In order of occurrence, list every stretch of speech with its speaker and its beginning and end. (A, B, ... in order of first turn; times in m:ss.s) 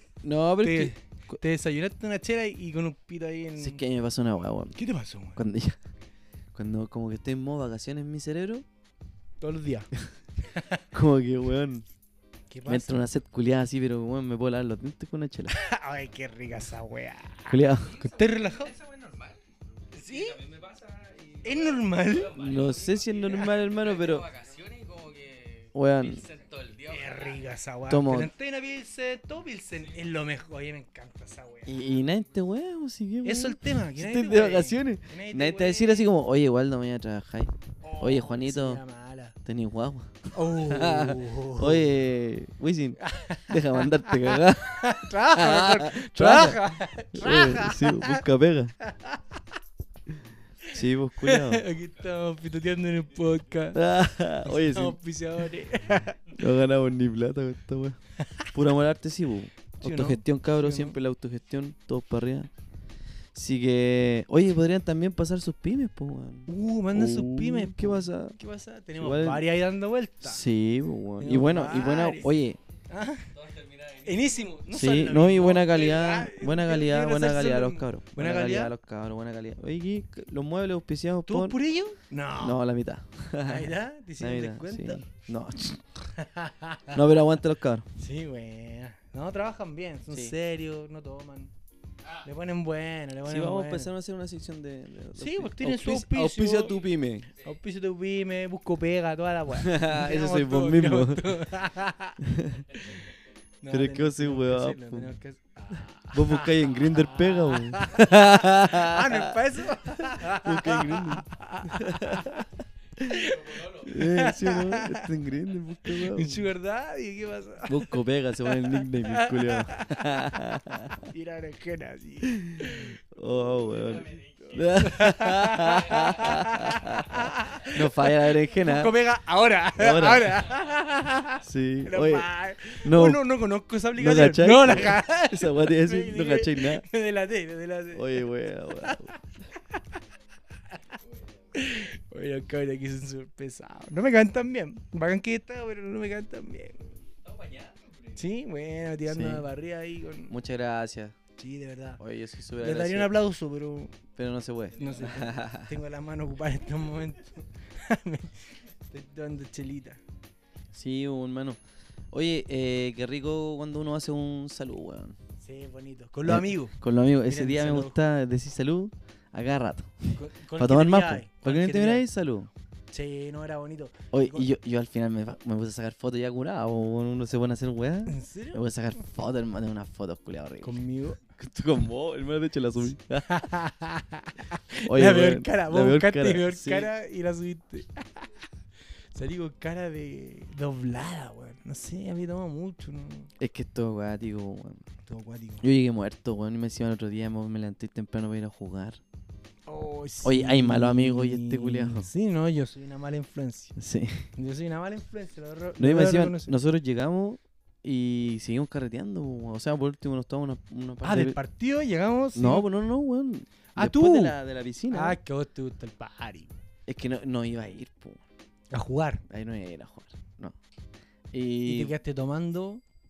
0:00.2-0:01.4 A
0:00.6-0:03.8 B
0:03.6-0:04.8 A
0:04.8-0:05.4 B
0:05.4-0:05.8 A
0:06.5-0:08.6 A
0:09.4-0:09.9 B
0:10.5-0:10.8 B
0:10.9-0:11.9 A
0:12.5-0:13.0 B
0:12.7-0:15.6 A
0:15.5-0:18.7 B
0:17.5-0:18.0 A
0:17.8-0:27.3 C
0:19.9-0:20.4 B
0:21.4-0:22.3 B
0:22.3-0:24.3 A
0:25.8-0:26.2 A
0:26.9-0:31.8 B
0:27.9-0:28.3 A
0:31.7-0:38.8 A
0:33.2-0:36.1 B
0:37.8-0:39.4 B
0:39.4-0:48.7 A
0:40.4-0:41.9 B
0:43.0-0:48.2 B
0:48.8-0:49.4 B
0:50.1-0:51.6 A
0:51.2-0:53.8 B
0:53.7-0:55.0 A
0:54.4-0:56.3 B
0:56.2-0:58.0 A
0:58.5-1:02.5 A
0:59.8-1:01.0 B
1:03.3-1:08.4 A
1:06.5-1:10.4 B
1:09.0-1:09.4 A
1:10.2-1:12.6 A
1:11.2-1:12.3 B
1:12.9-1:13.3 B
1:13.3-1:14.6 C
1:14.0-1:18.7 B
1:14.7-1:21.6 A
1:21.3-1:22.6 B
1:22.4-1:25.8 A
1:23.4-1:25.0 B
1:26.1-1:27.0 B
1:26.9-1:27.9 A
1:28.0-1:31.5 B
1:30.1-1:30.4 A
1:32.2-1:33.9 B
1:33.2-1:37.3 A
1:35.2-1:36.8 B
1:37.4-1:42.2 B
1:39.6-1:41.4 A
1:42.2-1:42.7 A
1:43.6-1:52.4 B
1:43.7-1:45.2 A
1:46.1-1:52.5 A
1:53.0-1:56.5 A
1:53.0-1:55.1 B
1:55.9-2:00.3 B
1:57.7-2:01.1 A
2:01.1-2:03.0 B
2:02.2-2:09.0 A
2:04.0-2:04.4 C
2:04.5-2:19.2 B
2:09.8-2:10.4 A
2:11.4-2:13.2 A
2:14.0-2:16.8 A
2:17.9-2:19.1 A
2:21.0-2:21.4 C
2:21.5-2:27.0 B
2:27.2-2:28.2 C
2:28.2-2:30.3 B
2:29.1-2:29.5 A
2:30.3-2:31.2 A
2:31.4-2:32.0 B
2:32.0-2:33.2 A
2:32.6-2:34.0 B
2:34.2-2:35.7 A
2:34.7-2:40.0 B
2:40.7-2:41.6 A
2:42.1-2:45.2 A
2:45.4-2:46.8 B
2:46.3-2:52.5 A
2:47.3-2:48.0 B
2:50.2-2:52.0 B
2:52.9-2:54.5 B
2:54.1-3:00.8 A
2:58.1-2:58.6 B
3:00.6-3:01.2 B
3:01.4-3:03.4 A
3:03.3-3:08.3 B
3:04.9-3:06.9 A
3:09.1-3:13.3 B
3:13.4-3:14.8 A
3:15.1-3:15.6 B
3:15.6-3:19.0 A
3:19.7-3:23.8 B
3:20.2-3:22.1 A
3:23.8-3:24.3 A
3:24.4-3:26.6 B
3:25.8-3:31.4 A
3:31.0-3:32.7 B
3:32.4-3:35.2 A
3:33.8-3:34.4 B
3:34.9-3:36.6 B
3:36.9-3:38.2 A
3:38.7-3:39.2 B
3:39.3-3:40.6 A
3:41.3-3:41.9 A
3:41.6-3:42.8 B